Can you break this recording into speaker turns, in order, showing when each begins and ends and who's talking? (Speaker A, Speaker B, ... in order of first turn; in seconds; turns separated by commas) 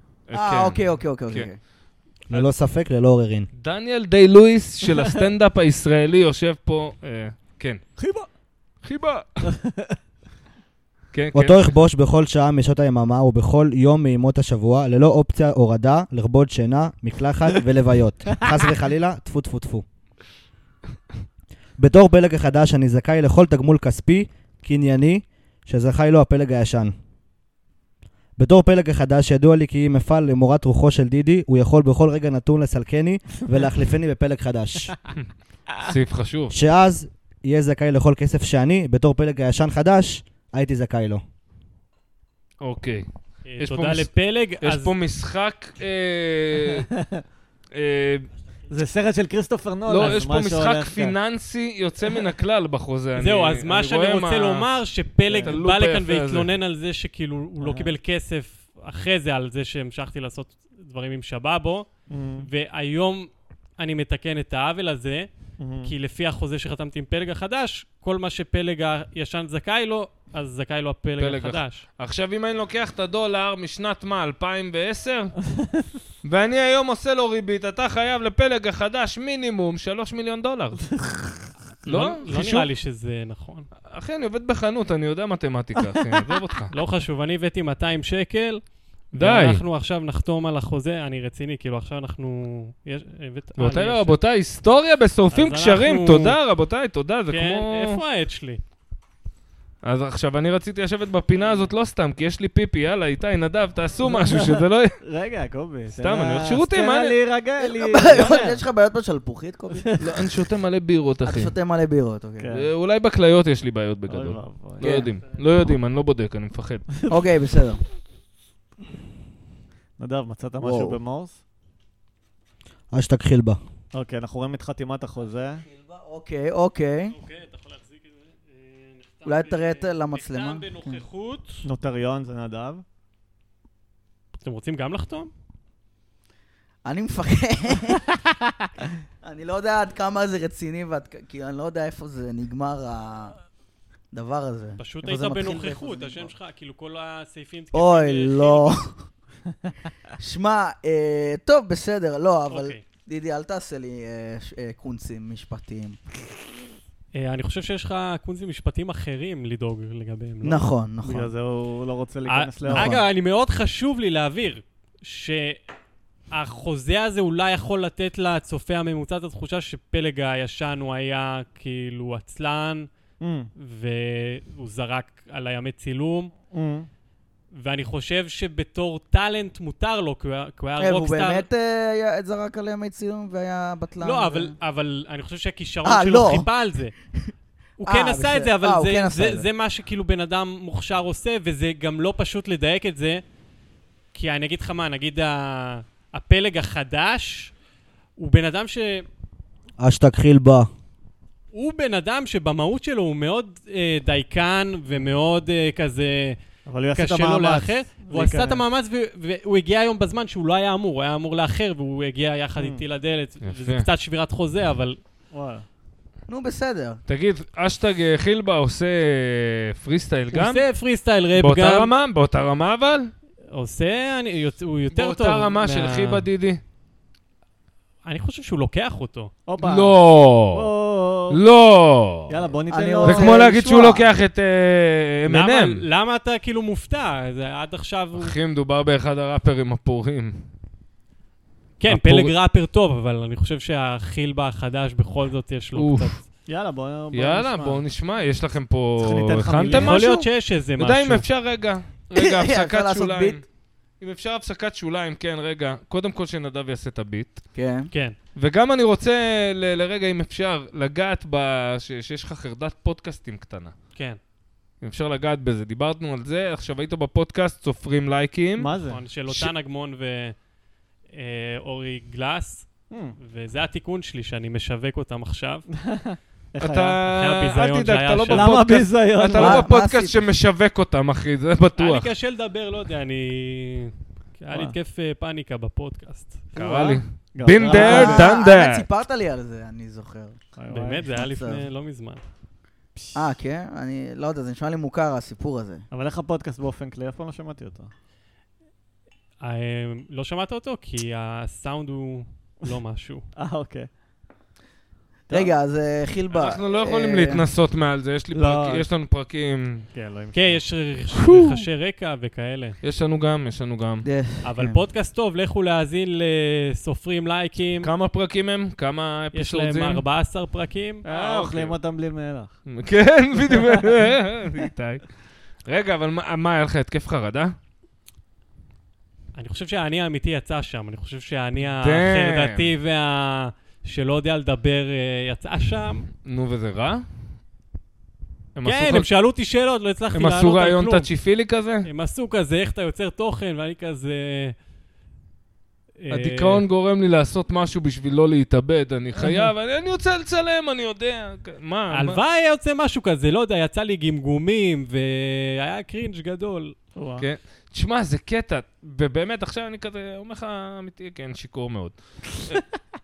Speaker A: 0.3-1.5, Speaker B: 0.3-1.6, Speaker C: 2.3-3.5, Speaker A: 3.5-7.8, Speaker D: 8.0-8.3, Speaker A: 8.8-9.4, Speaker D: 9.4-10.0, Speaker A: 11.1-11.8, Speaker C: 11.3-19.8, Speaker C: 21.8-26.9, Speaker C: 28.4-34.9, Speaker A: 35.2-36.5, Speaker C: 36.5-41.2, Speaker A: 42.6-43.0, Speaker E: 43.5-44.9, Speaker A: 43.6-46.9, Speaker A: 47.7-48.3, Speaker D: 48.7-51.1, Speaker A: 49.9-54.7, Speaker E: 53.1-61.9, Speaker D: 55.3-55.5, Speaker A: 55.3-56.5, Speaker D: 57.6-57.9, Speaker D: 62.1-62.5, Speaker E: 62.4-65.3, Speaker D: 65.6-65.9, Speaker E: 65.8-71.8, Speaker A: 71.2-75.4, Speaker A: 76.2-81.0, Speaker E: 81.8-83.7, Speaker A: 81.8-82.7, Speaker A: 83.8-86.7, Speaker E: 86.7-94.2, Speaker A: 89.2-89.6, Speaker A: 93.6-98.0, Speaker E: 95.3-96.4, Speaker E: 97.3-98.6, Speaker A: 99.8-105.0, Speaker D: 104.1-108.6, Speaker A: 106.0-107.2, Speaker B: 107.6-110.0, Speaker A: 110.0-111.5, Speaker B: 111.2-112.5, Speaker D: 112.4-112.7, Speaker A: 112.5-116.9, Speaker D: 114.1-114.9, Speaker B: 114.8-115.1, Speaker B: 117.1-117.8, Speaker D: 120.0-121.4, Speaker B: 120.6-121.0, Speaker C: 122.9-123.6, Speaker D: 123.9-125.6, Speaker B: 125.6-127.2, Speaker E: 127.1-131.6, Speaker B: 129.2-131.0, Speaker D: 131.6-132.8, Speaker E: 134.3-135.3, Speaker B: 136.8-138.1, Speaker B: 139.2-143.3, Speaker B: 144.1-146.3, Speaker E: 144.8-148.7, Speaker B: 147.7-149.0, Speaker B: 150.2-156.0, Speaker E: 152.5-152.8, Speaker E: 157.1-160.6, Speaker B: 160.4-161.3, Speaker D: 161.0-163.0, Speaker E: 162.3-165.6, Speaker B: 162.7-163.1, Speaker E: 166.3-172.9, Speaker D: 173.2-173.5, Speaker E: 173.6-176.3, Speaker D: 176.5-176.9, Speaker E: 177.5-181.4, Speaker B: 180.8-184.5, Speaker E: 184.0-186.9, Speaker B: 185.8-186.5, Speaker E: 187.8-193.2, Speaker B: 187.8-189.5, Speaker E: 194.1-197.5, Speaker E: 198.2-199.1, Speaker C: 199.8-200.7, Speaker E: 201.5-206.4, Speaker D: 206.7-208.6, Speaker E: 206.9-215.0, Speaker D: 212.6-212.8, Speaker A: 213.4-213.9, Speaker D: 215.3-215.6, Speaker B: 216.3-217.0, Speaker A: 217.1-220.6, Speaker E: 220.3-221.9, Speaker A: 221.3-223.1, Speaker E: 223.5-226.3, Speaker A: 224.9-226.6, Speaker E: 228.0-229.3, Speaker D: 229.5-231.4, Speaker A: 229.6-230.7, Speaker A: 231.3-232.3, Speaker D: 232.3-233.4, Speaker B: 232.7-234.1, Speaker A: 233.0-235.8, Speaker E: 235.2-238.3, Speaker A: 238.2-240.4, Speaker E: 241.8-246.2, Speaker A: 241.9-242.3, Speaker A: 245.7-246.1, Speaker D: 246.5-247.8, Speaker A: 247.1-253.4, Speaker D: 249.0-250.0, Speaker E: 249.7-251.2, Speaker B: 252.2-253.4, Speaker A: 254.0-257.4, Speaker B: 257.5-257.9, Speaker E: 257.9-258.1, Speaker A: 258.4-263.7, Speaker E: 263.9-264.2, Speaker A: 264.8-268.7, Speaker D: 268.6-269.0, Speaker E: 268.8-270.3, Speaker A: 269.3-269.5, Speaker E: 271.1-275.6, Speaker D: 272.9-273.2, Speaker D: 275.7-277.0, Speaker A: 276.6-282.1, Speaker E: 277.1-278.8, Speaker D: 278.3-279.6, Speaker B: 279.4-280.1, Speaker E: 281.8-286.5, Speaker D: 284.5-284.8, Speaker A: 286.5-288.9, Speaker D: 286.6-288.3, Speaker B: 287.6-290.4, Speaker D: 290.6-291.1, Speaker E: 290.7-292.2, Speaker B: 291.1-291.6, Speaker D: 292.9-293.2, Speaker B: 293.1-295.8, Speaker D: 295.9-297.9, Speaker E: 299.4-303.2, Speaker D: 303.4-303.9, Speaker B: 305.3-307.4, Speaker A: 306.3-309.9, Speaker D: 308.3-308.8, Speaker D: 309.9-310.6, Speaker E: 310.3-312.8, Speaker A: 311.1-311.6, Speaker A: 312.8-314.1, Speaker B: 314.0-314.8, Speaker E: 314.4-317.9, Speaker A: 317.8-320.0, Speaker E: 319.3-321.0, Speaker D: 321.0-322.6, Speaker A: 321.1-321.8, Speaker A: 322.6-325.1, Speaker D: 323.5-323.8, Speaker A: 325.6-327.5, Speaker E: 329.4-336.1, Speaker A: 331.8-332.7, Speaker A: 336.2-337.0, Speaker A: 338.6-339.1, Speaker E: 338.6-341.1, Speaker A: 340.1-341.9, Speaker E: 341.8-344.5, Speaker E: 346.0-346.6, Speaker A: 346.1-352.2, Speaker E: 351.9-356.8, Speaker D: 356.9-357.2, Speaker A: 357.2-362.6